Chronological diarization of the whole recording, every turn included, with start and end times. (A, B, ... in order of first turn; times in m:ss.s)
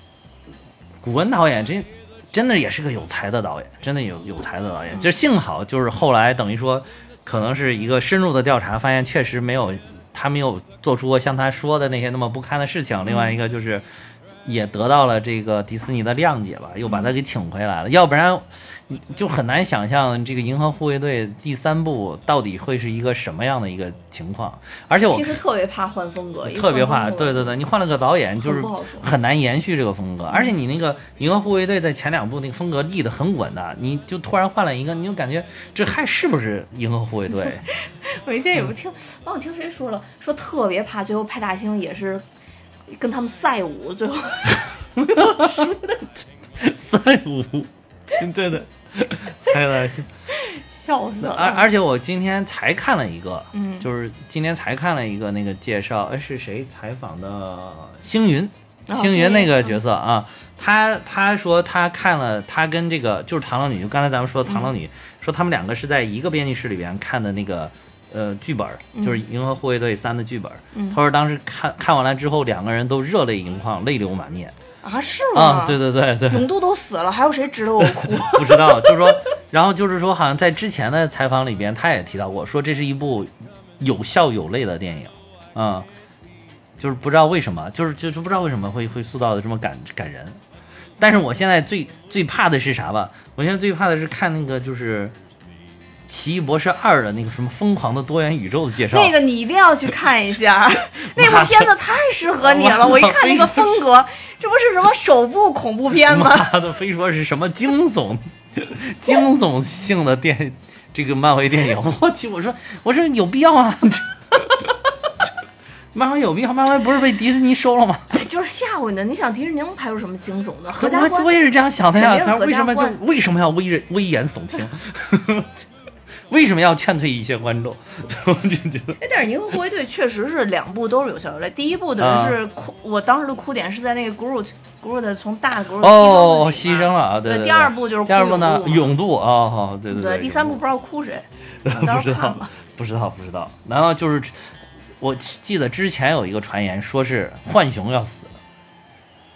0:01.0-0:13.8 A
0:13.0-0:13.4 B
0:14.4-0:25.4 A
0:16.8-0:17.1 B
0:25.0-0:27.6 B
0:26.4-0:37.6 A
0:28.4-0:29.1 B
0:30.3-0:30.5 B
0:37.3-0:42.2 B
0:42.9-0:46.1 B
0:45.0-0:45.7 A
0:46.6-0:50.1 A
0:50.3-0:51.7 B
0:51.2-1:14.5 A
0:53.5-0:53.9 B
0:58.9-0:59.8 B
1:04.4-1:04.7 B
1:08.9-1:09.2 B
1:10.7-1:11.0 B
1:14.8-1:19.3 B
1:15.3-1:16.5 A
1:17.8-1:25.9 A
1:26.8-1:30.4 A
1:31.0-1:35.1 A
1:36.1-1:39.2 A
1:38.9-1:46.6 B
1:41.0-1:41.7 A
1:42.4-1:43.8 A
1:45.9-1:54.7 A
1:55.9-1:58.2 A
1:58.1-2:03.0 B
2:00.7-2:05.5 A
2:06.3-2:09.0 A
2:09.0-2:19.0 B
2:12.0-2:12.4 A
2:15.8-2:20.6 A
2:19.9-2:22.5 B
2:21.6-2:28.3 A